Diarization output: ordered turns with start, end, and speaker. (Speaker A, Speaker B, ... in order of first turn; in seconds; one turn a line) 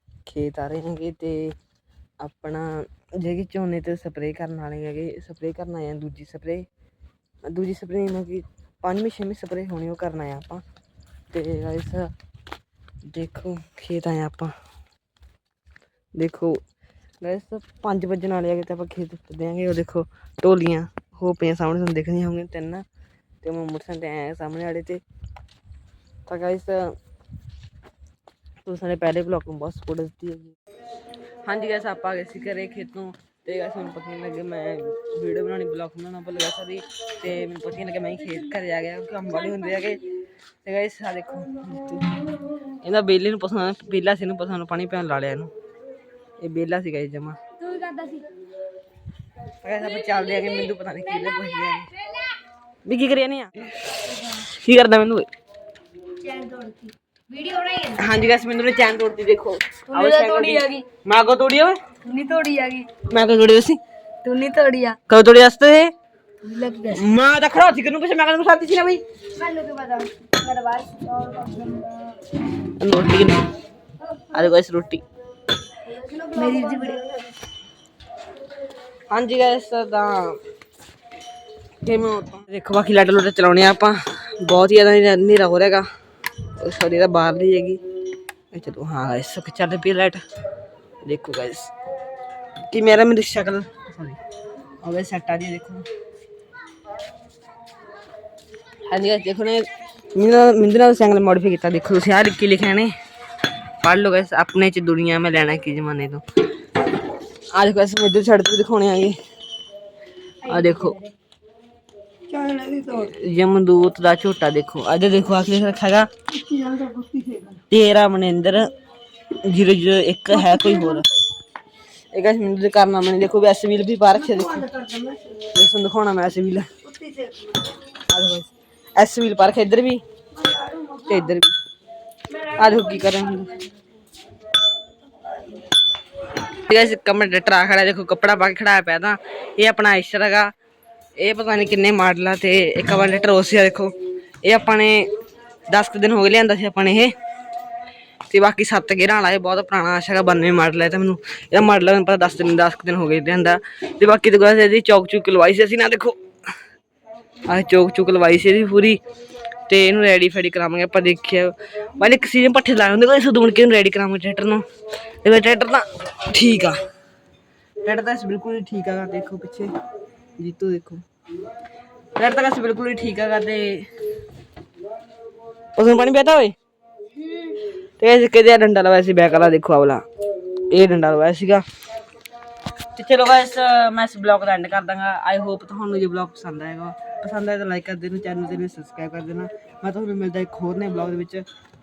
Speaker A: 0.2-1.6
Speaker A: 2.2-6.7
Speaker A: 7.5-10.6
Speaker A: 11.3-12.1
Speaker A: 13.1-14.5
Speaker A: 16.1-16.6
Speaker A: 17.2-22.8
Speaker A: 23.4-25.0
Speaker A: 26.2-27.0
Speaker A: 28.6-30.5
Speaker A: 31.4-40.1
Speaker A: 40.6-42.1
Speaker A: 42.8-45.5
Speaker A: 46.4-47.4
Speaker B: 47.6-48.3
Speaker A: 49.6-51.9
Speaker A: 52.8-55.3
Speaker B: 56.1-58.0
Speaker A: 57.9-61.8
Speaker B: 59.9-60.9
Speaker B: 62.0-62.9
Speaker A: 63.0-63.8
Speaker B: 64.2-65.0
Speaker A: 65.1-65.9
Speaker B: 66.4-67.1
Speaker A: 66.9-69.0
Speaker B: 69.3-72.2
Speaker A: 72.6-73.5
Speaker A: 74.3-75.0
Speaker B: 75.9-77.2
Speaker A: 79.1-80.4
Speaker A: 81.8-85.9
Speaker A: 86.4-87.8
Speaker A: 88.5-90.2
Speaker A: 91.0-91.7
Speaker A: 92.7-94.2
Speaker A: 94.8-95.9
Speaker A: 98.9-102.9
Speaker A: 103.8-106.2
Speaker A: 107.5-109.2
Speaker A: 110.4-111.0
Speaker B: 110.4-111.1
Speaker B: 112.3-113.1
Speaker A: 112.9-116.1
Speaker B: 116.3-117.6
Speaker A: 117.6-118.7
Speaker A: 119.3-121.0
Speaker A: 122.1-124.7
Speaker B: 124.7-125.2
Speaker A: 125.3-126.7
Speaker B: 126.9-127.4
Speaker A: 128.0-130.0
Speaker A: 131.0-131.5
Speaker A: 132.3-133.6
Speaker A: 136.4-140.5
Speaker A: 141.2-145.1
Speaker A: 145.7-147.1
Speaker A: 148.3-156.2
Speaker A: 157.4-159.0
Speaker A: 159.7-164.6
Speaker A: 165.2-166.8
Speaker A: 167.8-169.7
Speaker A: 170.4-171.0
Speaker A: 172.2-173.9
Speaker A: 175.8-176.5
Speaker A: 177.4-180.1
Speaker A: 180.7-181.6
Speaker A: 182.9-191.4